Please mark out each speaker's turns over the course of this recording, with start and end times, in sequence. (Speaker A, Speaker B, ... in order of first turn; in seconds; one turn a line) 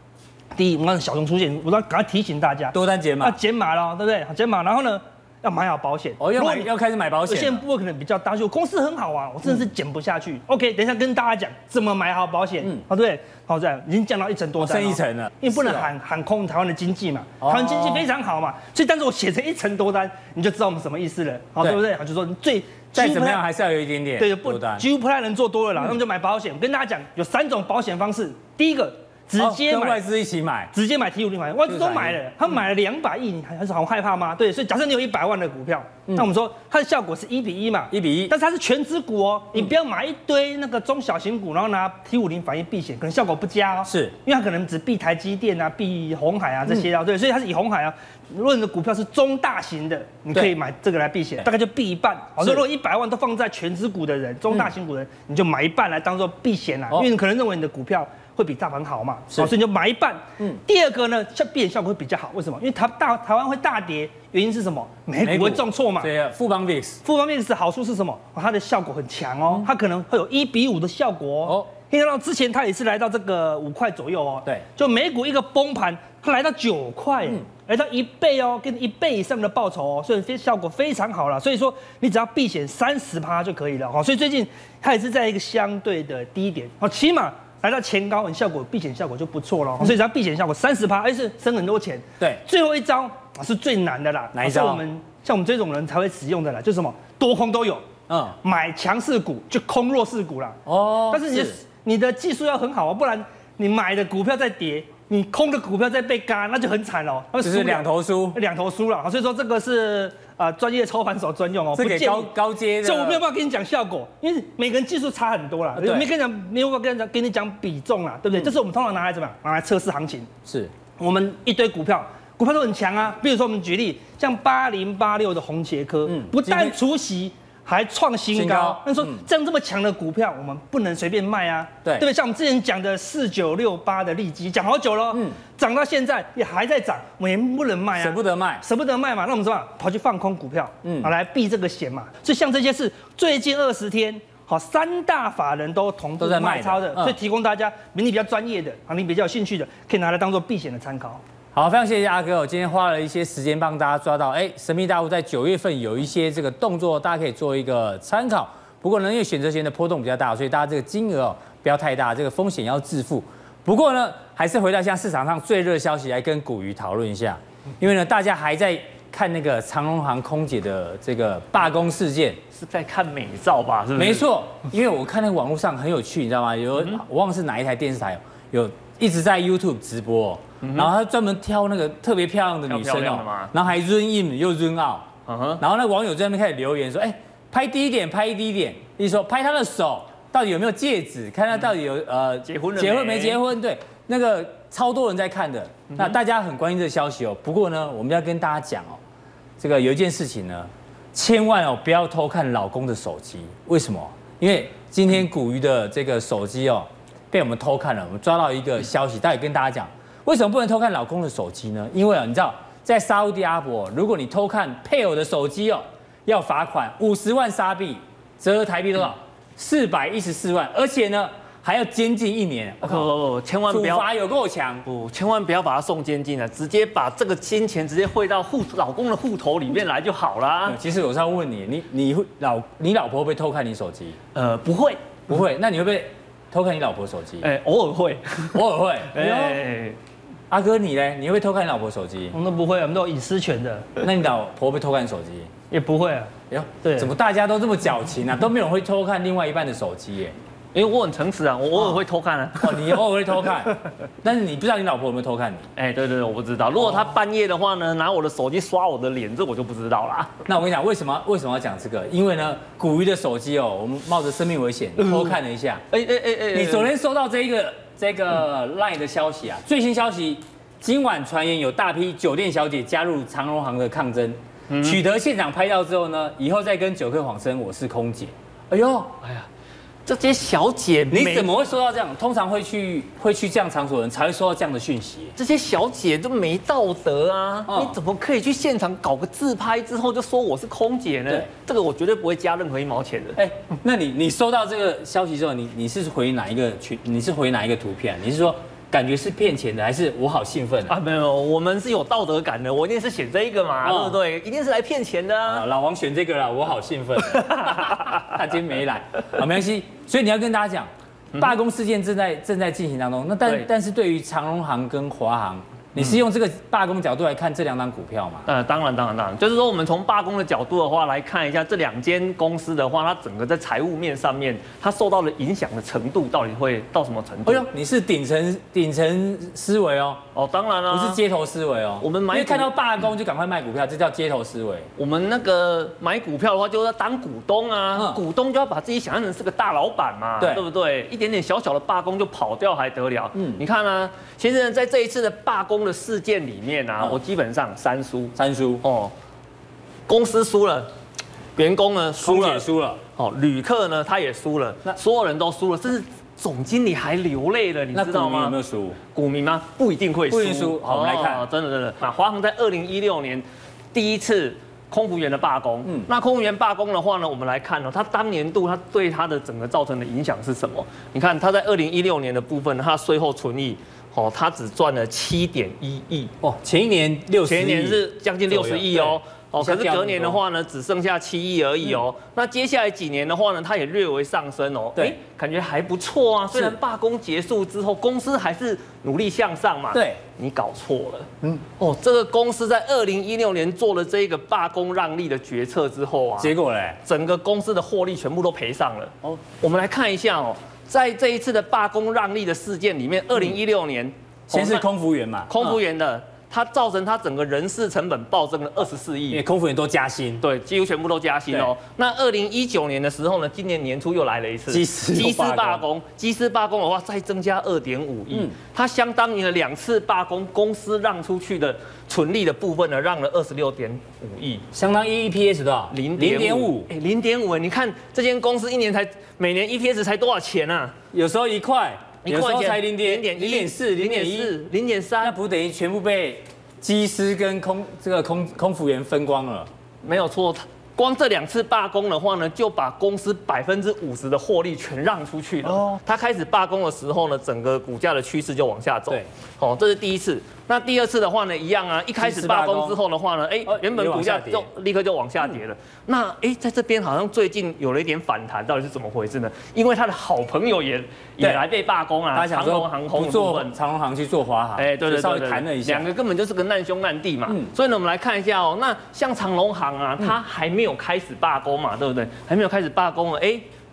Speaker A: 0.6-6.7
Speaker B: 2.7-3.4
Speaker B: 6.2-7.6
Speaker A: 7.3-23.4
Speaker B: 14.6-15.9
Speaker B: 17.4-18.0
Speaker B: 22.9-24.9
Speaker A: 24.2-30.0
Speaker B: 29.4-30.7
Speaker A: 30.7-66.1
Speaker B: 31.7-32.2
Speaker B: 37.9-38.3
Speaker B: 43.9-44.1
Speaker B: 65.2-67.0
Speaker A: 67.0-97.9
Speaker B: 94.3-94.8
Speaker B: 98.1-98.4
Speaker A: 98.4-120.3
Speaker B: 100.7-101.6
Speaker B: 107.4-108.4
Speaker B: 111.7-113.2
Speaker B: 115.8-116.1
Speaker B: 120.5-120.7
Speaker A: 121.0-151.2
Speaker B: 126.1-126.8
Speaker B: 128.3-129.3
Speaker B: 135.1-135.4
Speaker B: 138.0-138.6
Speaker B: 140.8-141.1
Speaker B: 146.2-147.2
Speaker B: 151.5-172.4
Speaker C: 172.5-174.3
Speaker B: 174.0-199.0
Speaker C: 180.6-180.9
Speaker C: 182.7-183.5
Speaker C: 185.3-185.6
Speaker C: 192.5-193.4
Speaker C: 195.9-196.2
Speaker B: 199.6-223.1
Speaker C: 222.8-224.1
Speaker B: 223.7-224.9
Speaker C: 224.9-230.8
Speaker B: 230.7-234.2
Speaker C: 234.3-235.0
Speaker B: 235.3-237.5
Speaker C: 237.4-240.0
Speaker B: 238.5-239.6
Speaker B: 240.5-242.3
Speaker A: 242.3-243.9
Speaker B: 244.0-245.5
Speaker A: 245.7-246.3
Speaker B: 246.5-250.3
Speaker A: 246.8-247.1
Speaker C: 250.7-253.0
Speaker B: 252.6-255.7
Speaker C: 255.8-260.3
Speaker B: 260.5-265.8
Speaker C: 265.0-265.4
Speaker C: 265.9-266.9
Speaker B: 266.5-279.2
Speaker C: 274.7-275.0
Speaker C: 280.1-281.5
Speaker B: 281.1-285.3
Speaker C: 285.4-293.4
Speaker B: 287.7-288.0
Speaker B: 293.4-300.9
Speaker C: 300.9-305.6
Speaker B: 303.8-304.2
Speaker B: 305.5-318.5
Speaker C: 307.6-308.2
Speaker C: 318.5-327.7
Speaker B: 327.5-330.2
Speaker C: 330.4-331.2
Speaker B: 330.9-334.9
Speaker C: 332.0-332.7
Speaker C: 335.0-349.1
Speaker B: 337.9-338.2
Speaker B: 343.4-343.6
Speaker B: 348.4-348.8
Speaker C: 350.1-350.9
Speaker C: 351.6-376.3
Speaker B: 352.2-353.0
Speaker B: 357.9-359.0
Speaker B: 360.3-361.4
Speaker B: 376.4-380.4
Speaker C: 377.5-396.5
Speaker B: 386.5-386.8
Speaker B: 389.9-390.2
Speaker B: 396.4-397.0
Speaker C: 397.1-404.9
Speaker B: 404.5-405.8
Speaker C: 405.5-409.4
Speaker B: 409.3-410.4
Speaker C: 410.4-424.6
Speaker B: 414.7-415.8
Speaker B: 424.7-426.9
Speaker C: 425.9-430.9
Speaker B: 431.1-434.5
Speaker C: 432.2-435.4
Speaker B: 435.2-439.7
Speaker C: 440.0-463.8
Speaker B: 445.6-446.0
Speaker B: 452.2-453.0
Speaker B: 453.7-454.7
Speaker B: 462.3-466.1
Speaker C: 464.8-473.7